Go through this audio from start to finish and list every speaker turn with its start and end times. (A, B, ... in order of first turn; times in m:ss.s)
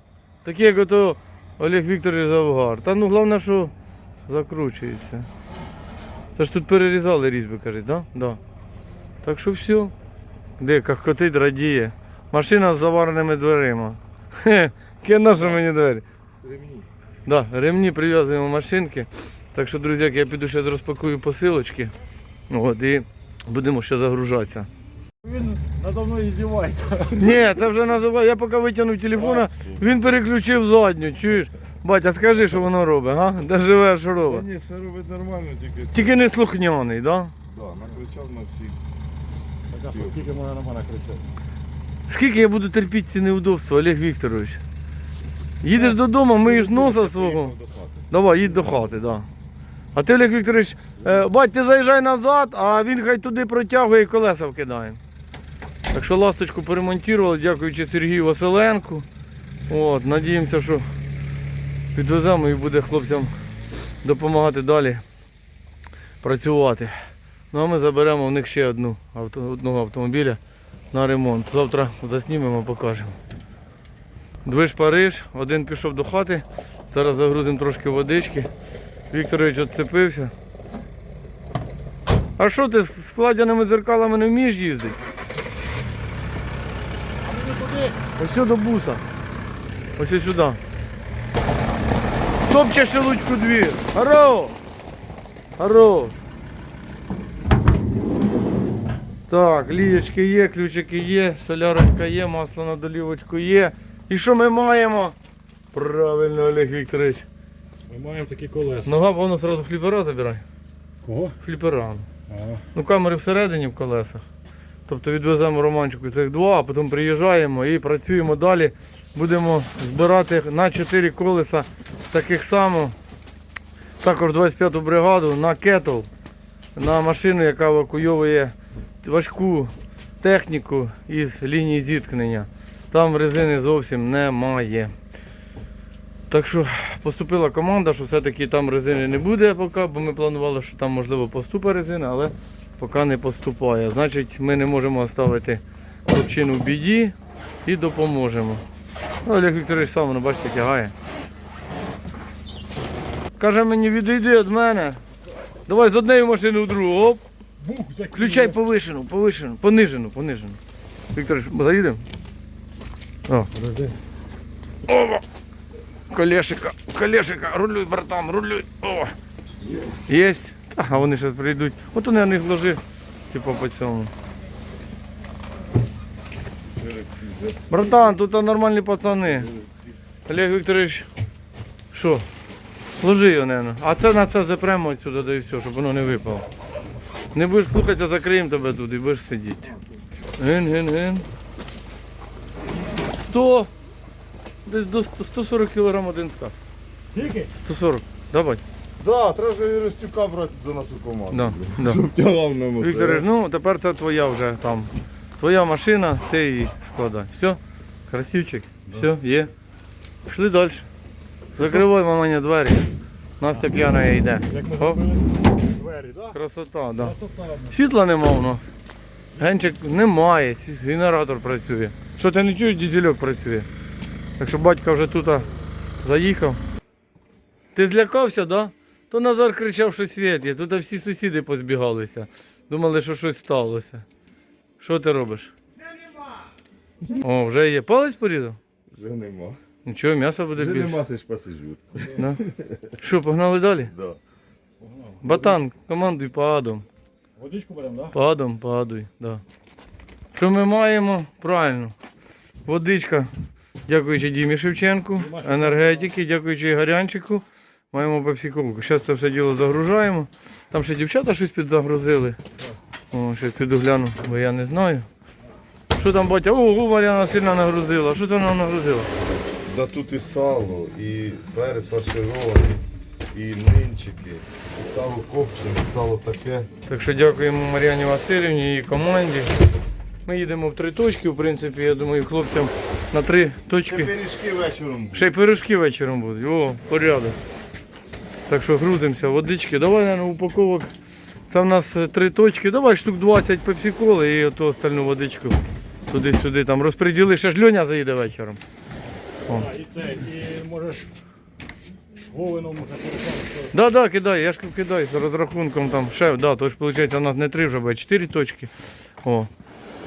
0:00.4-0:05.3 A
0:06.3-0:08.4 A
0:09.2-0:09.9 A
0:10.6-0:16.0 A
0:16.4-0:16.9 B
0:17.2-0:21.9 A
0:22.5-0:24.7 A
0:25.2-0:27.5 C
0:27.1-0:34.4 A
0:29.2-0:29.8 B
0:34.2-0:36.2 B
0:35.9-0:37.3 A
0:37.5-0:38.8 B
0:39.7-0:41.3 C
0:39.8-0:40.2 B
0:42.1-0:44.6 A
0:45.6-0:47.5 A
0:46.4-0:48.9 B
0:48.1-0:49.3 A
0:49.9-0:55.0 A
0:55.9-0:59.1 A
0:59.7-1:00.8 A
1:01.9-1:03.3 A
1:04.0-1:05.0 A
1:06.2-1:06.9 A
1:07.5-1:10.4 A
1:10.9-1:13.2 A
1:14.4-1:18.5 A
1:19.1-1:20.3 A
1:22.4-1:25.0 A
1:27.2-1:28.0 C
1:28.2-1:29.0 A
1:30.0-1:30.6 A
1:32.5-1:34.6 A
1:35.6-1:36.2 A
1:39.3-1:45.2 A
1:45.7-1:47.2 A
1:47.9-1:48.9 C
1:48.8-1:50.4 A
1:51.0-1:51.4 C
1:51.4-1:52.1 A
1:52.3-1:52.6 C
1:52.7-1:54.2 A
1:54.9-2:02.9 A
2:04.0-2:06.1 A
2:06.7-2:14.9 A
2:16.3-2:28.6 A
2:29.2-2:30.9 A
2:33.4-2:35.0 A
2:35.7-2:37.2 A
2:37.6-2:38.6 C
2:38.1-2:40.6 A
2:41.1-2:42.0 A
2:43.5-2:44.0 C
2:44.9-2:45.2 A
2:46.1-2:49.1 A
2:50.1-2:54.1 A
2:56.6-2:58.0 B
2:57.7-2:59.5 A
2:59.4-2:59.7 B
3:00.3-3:01.1 A
3:01.9-3:02.2 A
3:03.0-3:06.4 A
3:07.3-3:09.7 A
3:10.4-3:11.3 A
3:13.0-3:13.7 A
3:14.6-3:16.6 A
3:17.1-3:17.5 C
3:17.5-3:18.6 A
3:19.0-3:23.3 B
3:21.3-3:22.1 A
3:22.8-3:29.5 A
3:30.3-3:30.9 A
3:31.5-3:31.8 C
3:31.5-3:32.9 A
3:33.4-3:35.0 A
3:34.4-3:36.4 C
3:36.3-3:37.2 A
3:37.0-3:37.8 C
3:37.7-3:38.7 A
3:39.4-3:43.7 A
3:44.4-3:45.5 A
3:46.0-3:46.6 A
3:47.7-3:54.0 A
3:54.8-3:55.5 A
3:57.1-3:58.6 A
3:58.9-3:59.6 B
3:59.8-4:01.0 A
4:00.5-4:02.7 B
4:02.1-4:02.4 A
4:03.0-4:03.9 A
4:03.9-4:04.2 B
4:04.8-4:05.6 C
4:05.2-4:06.8 A
4:07.4-4:08.2 C
4:08.1-4:09.4 A
4:10.4-4:11.9 A
4:12.6-4:13.3 A
4:13.9-4:22.4 A
4:15.1-4:16.1 C
4:23.1-4:25.1 A
4:26.0-4:29.1 A
4:29.6-4:36.7 B
4:36.9-4:39.5 A
4:40.2-4:44.1 A
4:43.8-4:45.3 B
4:45.1-4:47.4 A
4:48.5-4:50.9 A
4:51.5-4:58.6 A
4:59.5-5:01.1 C
5:02.3-5:03.7 C
5:03.7-5:08.7 A
5:09.2-5:09.5 A